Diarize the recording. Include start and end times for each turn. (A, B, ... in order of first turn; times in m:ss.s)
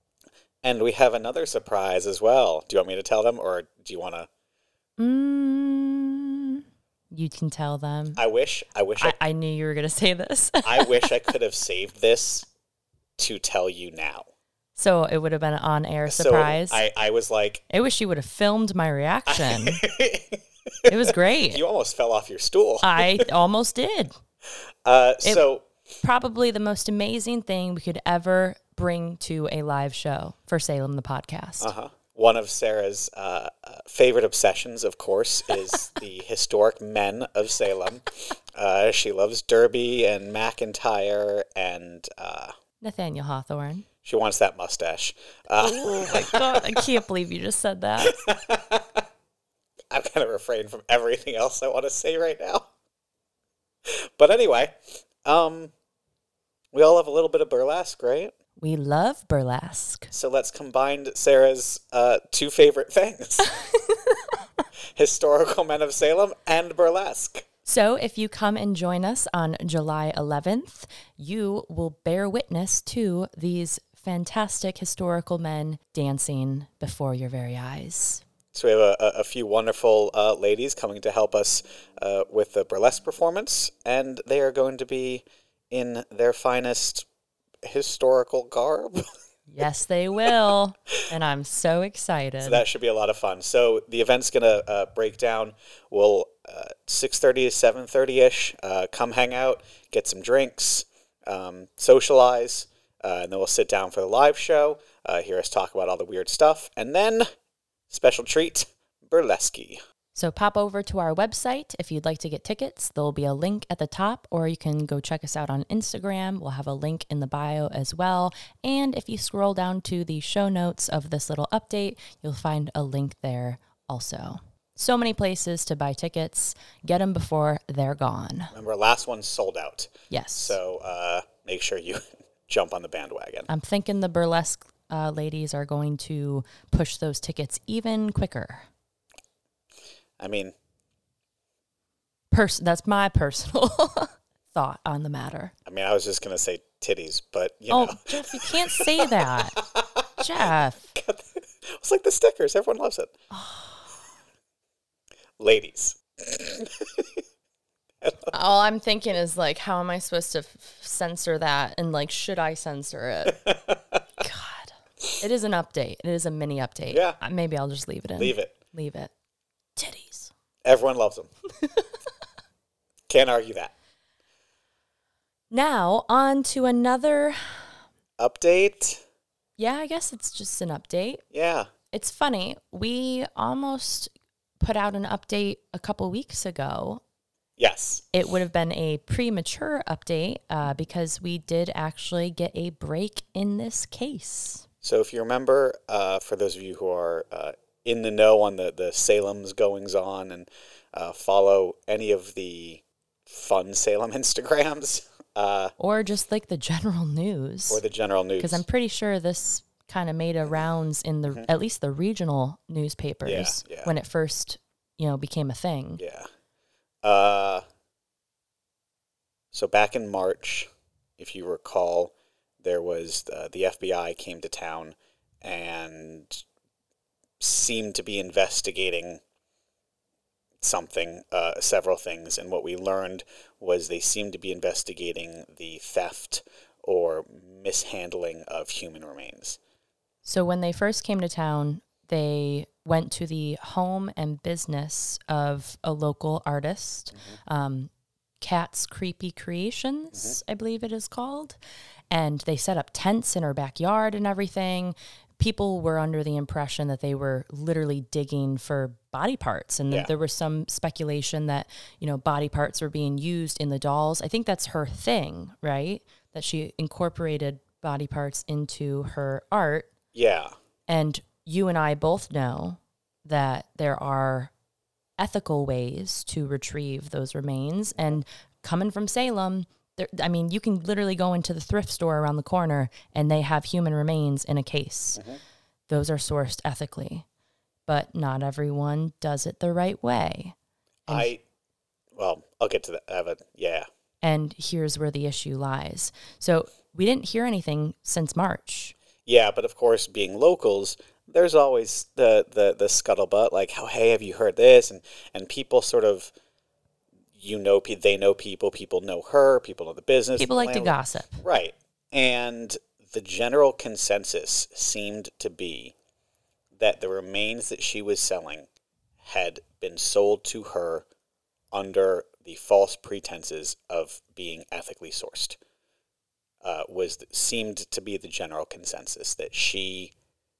0:00.6-0:04.3 A
0:05.0-0:06.6 B
0:07.1-0:08.2 B
0:08.2-0:09.2 A
0:09.0-0:11.3 B
0:10.6-0:12.5 A
0:13.2-0:14.2 A
0:14.8-0:16.8 B
0:16.1-0:17.6 A
0:17.7-0:19.8 B
0:19.3-0:23.3 A
0:20.9-0:21.6 B
0:22.8-0:24.1 B
0:24.8-0:25.6 A
0:26.0-0:31.7 B
0:31.6-0:42.5 A
0:42.8-0:43.8 B
0:44.0-0:46.9 A
0:45.6-0:48.2 B
0:48.0-0:49.0 A
0:49.9-0:52.7 A
0:54.2-0:55.7 A
0:56.7-0:58.3 A
0:58.6-1:00.1 B
1:00.1-1:03.5 A
1:03.7-1:04.2 B
1:05.0-1:07.4 A
1:07.6-1:18.2 B
1:18.5-1:27.0 A
1:27.6-1:29.1 A
1:29.5-1:32.6 B
1:32.4-1:47.3 A
1:47.9-1:49.8 A
1:50.1-2:08.5 B
2:08.5-2:13.5 A
2:10.1-2:10.6 B
2:13.5-2:18.7 B
2:20.2-2:20.5 A
2:22.3-2:25.5 B
2:25.6-2:30.2 A
2:27.7-2:29.6 B
2:30.2-2:30.9 B
2:30.9-2:33.1 A
2:33.3-2:33.9 B
2:35.4-2:37.2 A
2:38.0-2:38.3 A
2:38.3-2:43.4 B
2:43.2-2:44.0 A
2:44.2-2:49.1 B
2:46.9-2:47.2 A
2:48.2-2:48.5 A
2:49.8-2:50.3 B
2:50.6-2:51.3 A
2:51.6-2:51.9 B
2:53.1-2:53.7 A
2:55.5-2:57.7 B
2:58.2-2:59.0 A
2:59.6-3:01.2 B
3:01.3-3:01.7 A
3:01.9-3:07.0 B
3:07.6-3:08.0 A
3:08.1-3:14.6 B
3:14.8-3:25.7 A
3:25.8-3:27.8 B
3:27.7-3:28.6 A
3:28.4-3:36.0 B
3:33.2-3:33.9 A
3:36.0-3:36.3 A
3:37.0-3:37.6 A
3:39.5-3:46.4 A
3:47.4-3:49.2 A
3:50.6-3:59.6 A
4:00.2-4:07.9 B
4:08.4-4:11.6 B
4:10.1-4:10.4 A
4:12.1-4:29.9 B
4:30.1-4:30.5 A
4:30.9-4:34.5 B
4:35.2-4:45.2 B
4:45.2-4:45.4 A
4:45.9-4:47.2 B
4:47.9-4:50.6 B
4:51.1-4:51.3 B
4:51.1-4:51.4 A
4:52.1-4:53.9 A
4:54.2-4:59.0 B
4:59.2-5:06.3 A
5:07.4-5:15.9 A
5:10.4-5:11.4 B
5:16.7-5:18.7 A
5:19.2-5:21.0 A
5:21.7-5:25.6 A
5:26.6-5:30.1 A